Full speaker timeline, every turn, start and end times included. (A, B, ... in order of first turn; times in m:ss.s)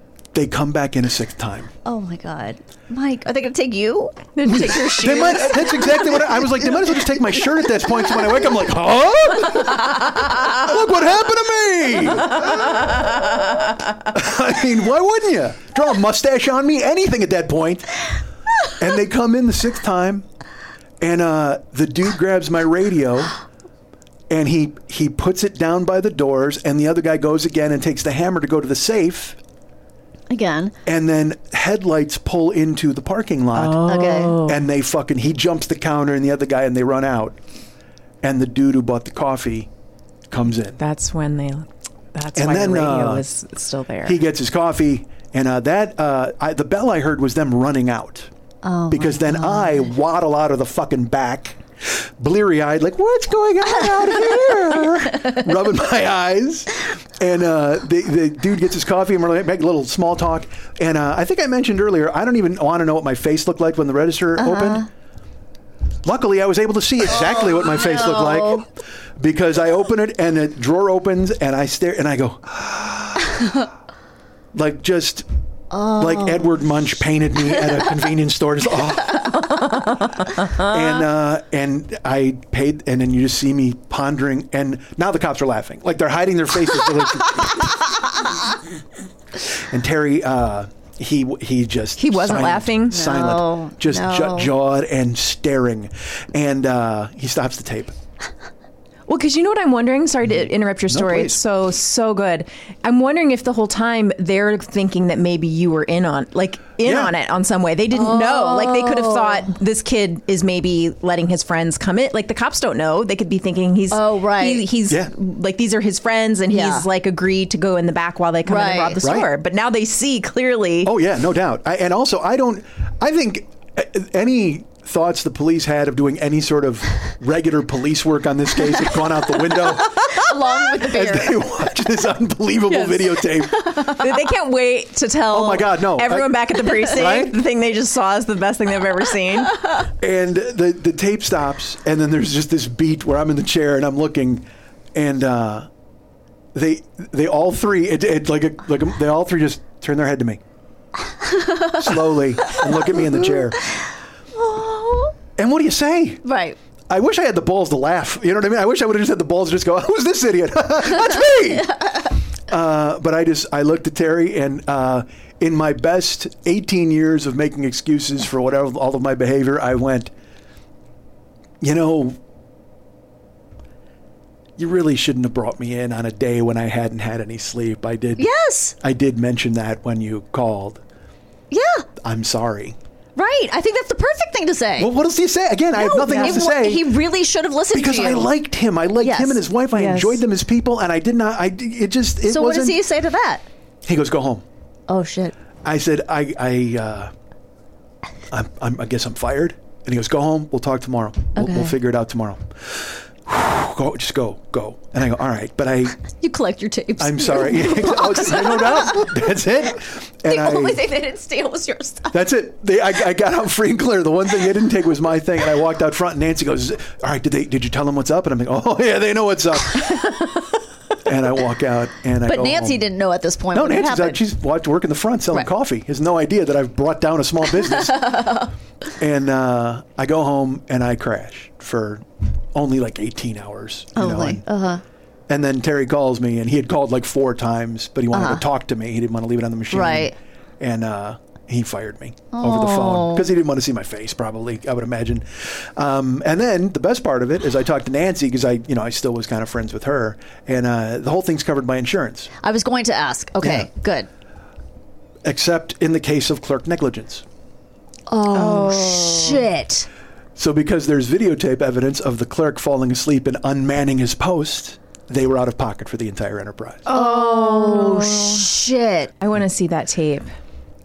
0:00.3-0:01.7 A
0:01.8-0:06.8 B
0:04.4-0:05.5 C
0:04.5-0:13.1 A
0:14.0-0:18.0 A
0:18.8-0:20.2 A
0:21.0-0:23.3 A
0:24.3-0:29.4 A
0:30.3-0:30.7 B
0:30.8-0:33.8 A
0:33.5-0:34.6 C
0:33.8-0:34.4 B
0:34.3-0:37.4 A
0:38.2-0:39.7 A
0:40.3-0:40.8 A
0:40.8-0:44.2 C
0:42.3-0:43.2 A
0:44.0-0:48.3 A
0:48.6-0:49.9 B
0:48.9-1:04.9 A
1:04.4-1:04.9 B
1:06.0-1:08.7 A
1:07.1-1:08.6 B
1:09.2-1:13.3 A
1:14.5-1:15.2 A
1:15.7-1:16.5 B
1:16.0-1:19.4 A
1:19.6-1:20.0 C
1:20.6-1:27.9 A
1:29.7-1:37.9 A
1:32.0-1:33.0 C
1:32.9-1:34.5 B
1:39.1-2:00.9 C
1:40.3-1:41.4 A
1:46.8-1:47.1 A
1:47.9-1:49.5 B
1:53.9-1:54.7 B
1:54.9-1:55.1 A
1:56.5-1:56.9 B
1:58.4-1:59.0 B
1:59.0-1:59.3 A
2:00.8-2:13.8 A
2:10.0-2:11.4 B
2:12.7-2:19.5 C
2:15.3-2:17.4 A
2:20.0-2:25.7 A
2:26.5-2:30.4 A
2:31.3-2:31.9 B
2:31.8-2:33.6 A
2:34.3-2:35.1 B
2:35.4-2:36.2 A
2:36.2-2:36.6 B
2:36.9-2:50.1 A
2:51.6-2:52.2 A
2:54.6-2:58.3 A
2:58.2-2:58.8 B
2:58.8-3:00.8 A
3:01.5-3:01.9 B
3:02.0-3:02.8 A
3:03.2-3:04.9 B
3:04.8-3:06.9 A
3:05.8-3:08.3 B
3:06.1-3:06.4 C
3:07.7-3:12.8 A
3:09.0-3:09.4 B
3:09.7-3:10.2 C
3:12.2-3:13.4 B
3:13.8-3:14.4 A
3:14.9-3:15.3 B
3:15.6-3:17.1 A
3:18.3-3:26.0 A
3:21.3-3:21.8 B
3:26.1-3:29.2 B
3:27.0-3:30.8 A
3:30.2-3:32.3 B
3:32.1-3:40.2 A
3:41.0-3:42.8 A
3:42.2-3:44.2 B
3:43.5-3:48.3 A
3:47.6-3:48.5 B
3:49.0-3:54.4 A
3:53.9-3:54.8 B
3:55.3-4:12.3 A
3:58.1-3:58.4 B
3:59.7-4:00.1 B
4:02.3-4:03.3 B
4:12.4-4:14.1 B
4:13.4-4:13.7 A
4:15.2-4:17.2 A
4:18.1-4:19.9 B
4:18.3-4:19.4 C
4:20.4-4:26.9 A
4:26.8-4:28.5 C
4:26.9-4:29.1 B
4:29.2-4:30.3 C